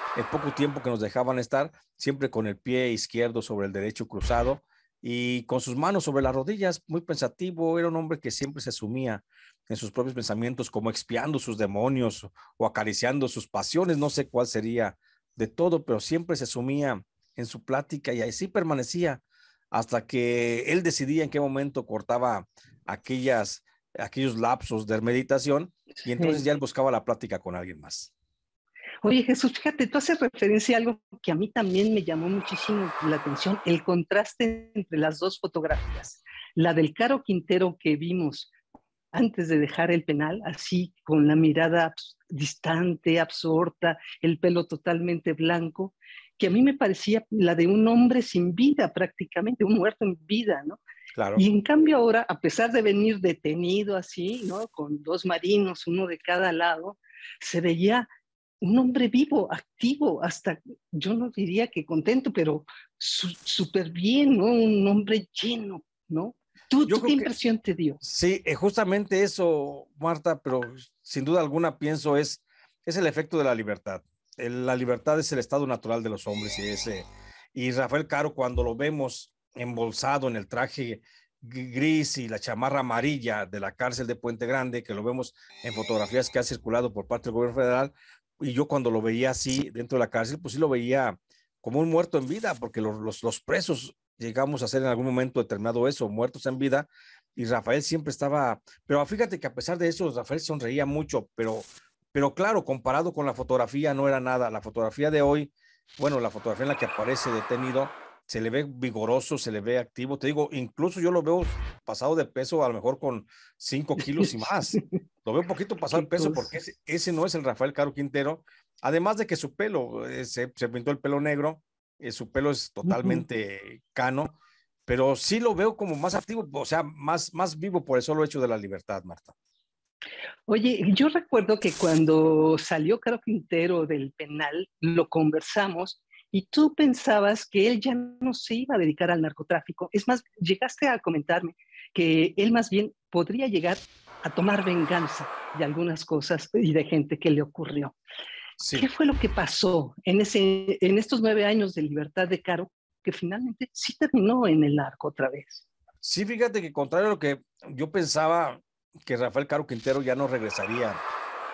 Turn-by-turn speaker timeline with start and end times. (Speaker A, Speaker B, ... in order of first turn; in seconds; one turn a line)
Speaker A: 0.1-28.1
Speaker B: 26.0-26.4
Speaker B: 29.0-38.5
Speaker B: 39.1-50.8
Speaker A: 51.1-51.4
Speaker B: 51.4-58.1
Speaker B: 58.6-68.0
Speaker A: 66.8-67.3
Speaker A: 68.0-129.3
Speaker B: 114.2-114.8
Speaker B: 115.9-116.5
Speaker B: 122.8-123.2
Speaker B: 130.5-147.9
Speaker A: 148.6-148.9
Speaker B: 148.7-155.6
Speaker A: 156.0-161.0